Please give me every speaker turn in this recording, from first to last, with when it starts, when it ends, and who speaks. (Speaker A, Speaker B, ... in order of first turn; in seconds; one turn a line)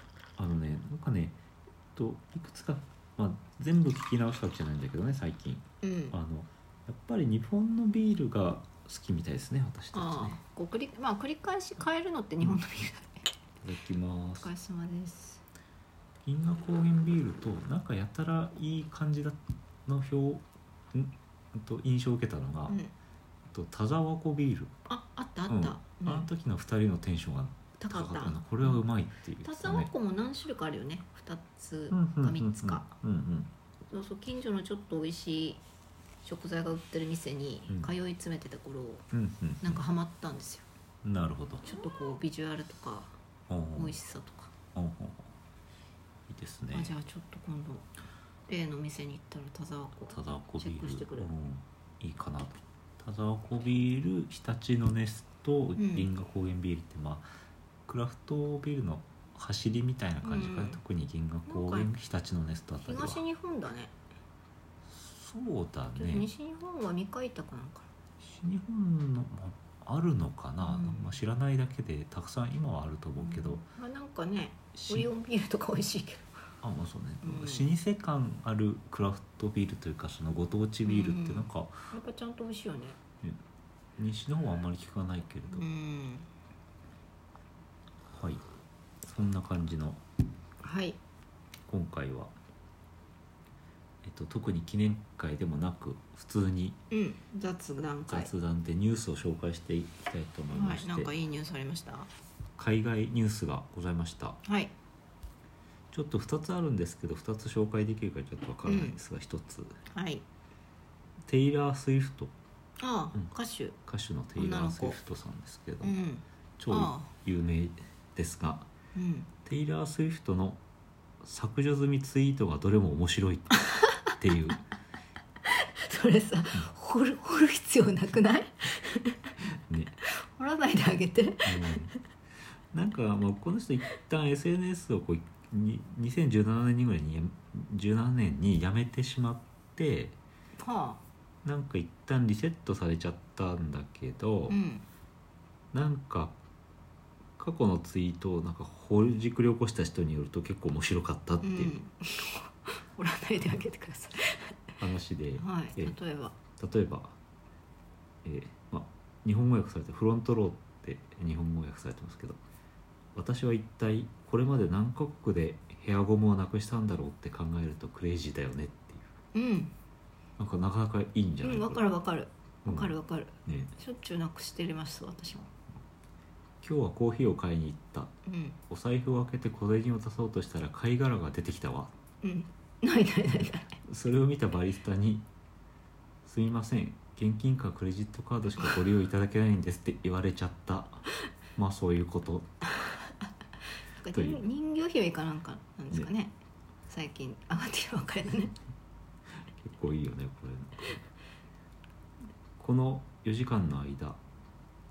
Speaker A: 0.4-1.4
Speaker A: 1.9-10.4
Speaker B: 5.8-6.2
Speaker B: 9.9-13.3
Speaker A: 13.6-14.5
Speaker B: 14.4-15.4
Speaker A: 16.2-22.8
Speaker B: 22.7-22.9
Speaker A: 23.5-24.7
Speaker B: 24.9-26.3
Speaker A: 25.5-29.9
Speaker B: 27.8-28.8
Speaker B: 29.4-32.9
Speaker A: 31.9-33.5
Speaker B: 33.9-35.6
Speaker B: 36.2-39.0
Speaker A: 39.1-39.8
Speaker B: 39.6-40.7
Speaker A: 41.0-41.7
Speaker B: 41.6-43.1
Speaker A: 43.5-44.0
Speaker B: 43.8-44.5
Speaker A: 44.8-45.3
Speaker A: 46.3-46.9
Speaker B: 46.7-47.9
Speaker B: 48.5-51.3
Speaker A: 50.1-57.2
Speaker B: 55.8-56.1
Speaker A: 57.9-63.2
Speaker B: 60.2-60.8
Speaker B: 61.5-61.9
Speaker B: 62.8-64.0
Speaker A: 64.9-66.3
Speaker B: 66.0-67.9
Speaker A: 68.2-73.7
Speaker B: 70.6-71.2
Speaker B: 73.2-76.3
Speaker A: 74.8-75.1
Speaker A: 76.6-81.7
Speaker B: 77.2-77.7
Speaker B: 80.8-83.0
Speaker A: 84.0-85.7
Speaker B: 85.5-86.3
Speaker A: 88.1-88.4
Speaker A: 89.0-90.0
Speaker B: 90.6-91.0
Speaker A: 91.7-92.3
Speaker A: 94.0-96.8
Speaker B: 96.9-98.3
Speaker A: 98.1-101.1
Speaker B: 100.5-102.1
Speaker A: 102.6-104.4
Speaker B: 104.4-104.7
Speaker A: 105.9-109.8
Speaker B: 108.6-109.0
Speaker B: 109.9-110.2
Speaker A: 111.3-112.3
Speaker B: 112.8-113.8
Speaker A: 113.9-116.0
Speaker B: 114.4-115.0
Speaker B: 115.8-117.1
Speaker A: 116.6-118.7
Speaker B: 119.0-119.3
Speaker A: 119.5-120.6
Speaker A: 121.2-124.6
Speaker B: 125.5-129.3
Speaker A: 129.7-129.9
Speaker B: 130.0-131.9
Speaker A: 131.4-131.9
Speaker A: 132.7-140.2
Speaker B: 140.6-141.0
Speaker A: 141.4-144.6
Speaker B: 144.5-144.8
Speaker A: 145.7-146.4
Speaker A: 147.4-151.8
Speaker B: 151.4-154.6
Speaker A: 154.8-156.0
Speaker B: 155.4-156.3
Speaker A: 156.6-157.2
Speaker A: 158.2-162.4
Speaker A: 163.2-169.1
Speaker B: 169.3-169.7
Speaker A: 170.4-171.9
Speaker B: 171.4-175.5
Speaker A: 172.7-173.7
Speaker A: 176.6-178.1
Speaker B: 178.3-178.6
Speaker A: 178.7-181.9
Speaker B: 182.2-183.8
Speaker A: 183.8-185.3
Speaker A: 186.2-191.1
Speaker A: 191.6-192.5
Speaker B: 194.0-196.3
Speaker A: 194.1-194.5
Speaker B: 196.9-198.6
Speaker A: 199.6-201.0
Speaker A: 202.6-204.2